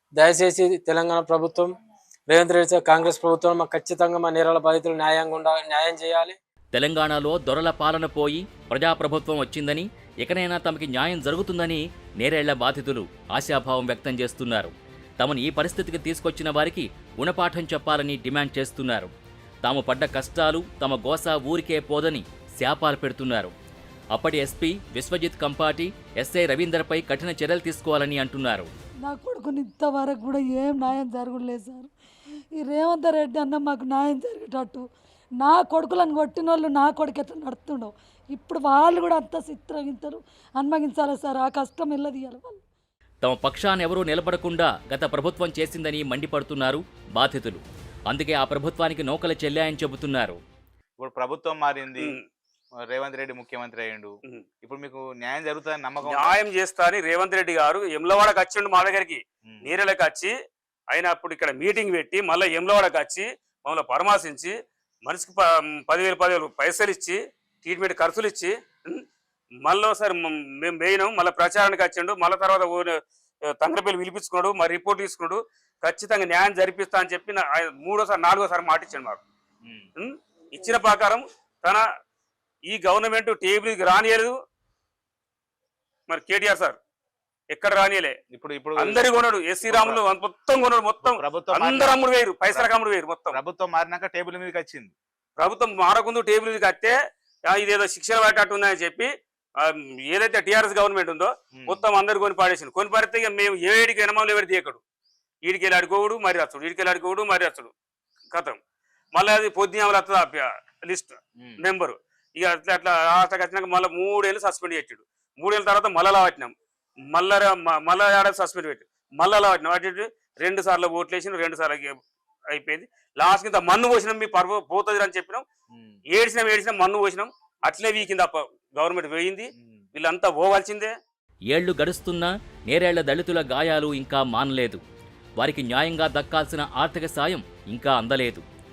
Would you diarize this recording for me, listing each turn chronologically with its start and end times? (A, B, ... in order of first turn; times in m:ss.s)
0:00.2-0:01.7 A
0:02.3-0:06.4 A
0:06.7-0:19.1 B
0:19.6-0:23.5 B
0:24.1-0:28.7 B
0:29.0-0:31.9 C
0:32.6-0:34.8 C
0:35.4-0:42.6 C
0:43.2-0:50.4 B
0:51.0-0:52.2 D
0:52.9-0:54.1 D
0:54.6-0:56.4 D
0:56.0-1:00.3 E
1:00.9-1:04.5 E
1:05.0-1:09.0 E
1:09.6-1:13.0 E
1:13.6-1:19.2 E
1:20.0-1:21.8 E
1:22.7-1:24.3 E
1:26.1-1:26.8 E
1:27.5-1:28.1 E
1:28.3-1:29.1 D
1:28.8-1:33.4 E
1:29.6-1:30.0 D
1:31.0-1:32.7 D
1:33.3-1:34.9 D
1:35.4-1:36.9 E
1:37.5-1:39.1 E
1:39.6-1:44.8 E
1:41.5-1:41.8 D
1:45.4-1:47.7 E
1:48.3-1:48.6 E
1:49.1-1:56.5 E
1:57.1-2:02.0 E
2:02.5-2:05.4 E
2:05.7-2:06.0 D
2:06.1-2:10.9 E
2:09.6-2:09.9 D
2:11.5-2:14.8 B
2:15.4-2:18.4 B